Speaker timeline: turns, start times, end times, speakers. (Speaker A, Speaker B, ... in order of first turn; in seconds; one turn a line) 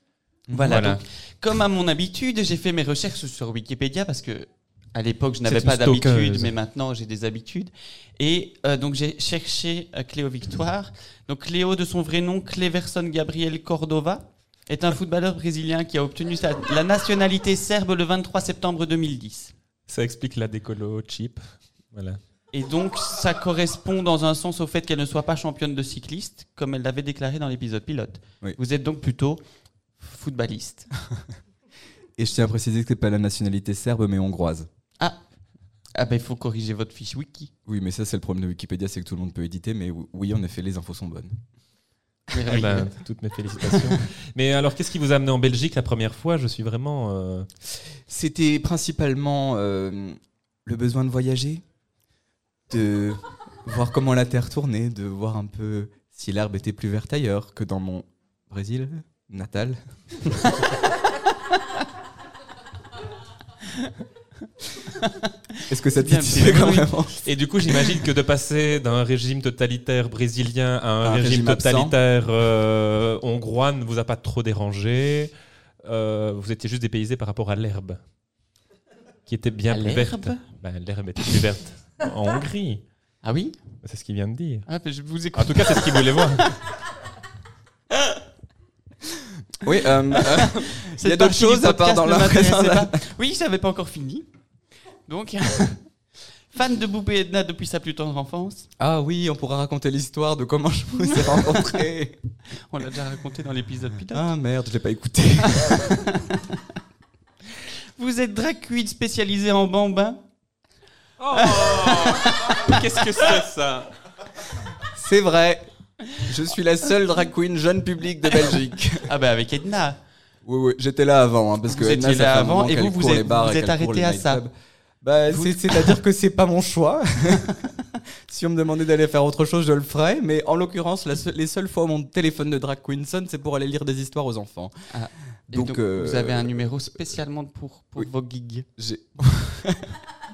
Speaker A: 0.5-0.8
Speaker B: 0.5-19.5
Speaker C: 0.7-1.0
Speaker C: 5.5-6.5
Speaker C: 19.9-22.2
Speaker B: 22.5-29.4
Speaker B: 30.0-30.9
Speaker A: 32.2-34.7
Speaker B: 36.0-37.5
Speaker A: 37.7-41.3
Speaker B: 42.3-42.9
Speaker C: 42.5-47.5
Speaker B: 43.6-44.0
Speaker A: 48.1-51.6
Speaker A: 52.7-59.8
Speaker B: 64.9-66.9
Speaker A: 65.7-67.2
Speaker C: 67.2-75.3
Speaker A: 71.0-71.9
Speaker C: 75.8-78.0
Speaker C: 79.3-82.8
Speaker B: 79.7-80.5
Speaker B: 83.2-83.6
Speaker C: 83.8-84.7
Speaker B: 84.7-86.6
Speaker C: 85.3-86.5
Speaker A: 89.5-93.0
Speaker B: 90.2-94.3
Speaker B: 95.1-95.9
Speaker B: 96.5-98.7
Speaker A: 98.8-102.2
Speaker B: 102.5-104.2
Speaker A: 104.1-105.9
Speaker B: 105.4-106.6
Speaker B: 108.0-110.2
Speaker C: 111.2-113.9
Speaker B: 111.3-113.3
Speaker A: 114.8-115.6
Speaker A: 116.2-119.1
Speaker B: 119.0-120.0
Speaker A: 120.5-124.5
Speaker B: 121.7-124.4
Speaker A: 125.0-134.7
Speaker B: 125.3-125.9
Speaker B: 134.9-138.7
Speaker A: 135.5-136.8
Speaker A: 138.8-140.0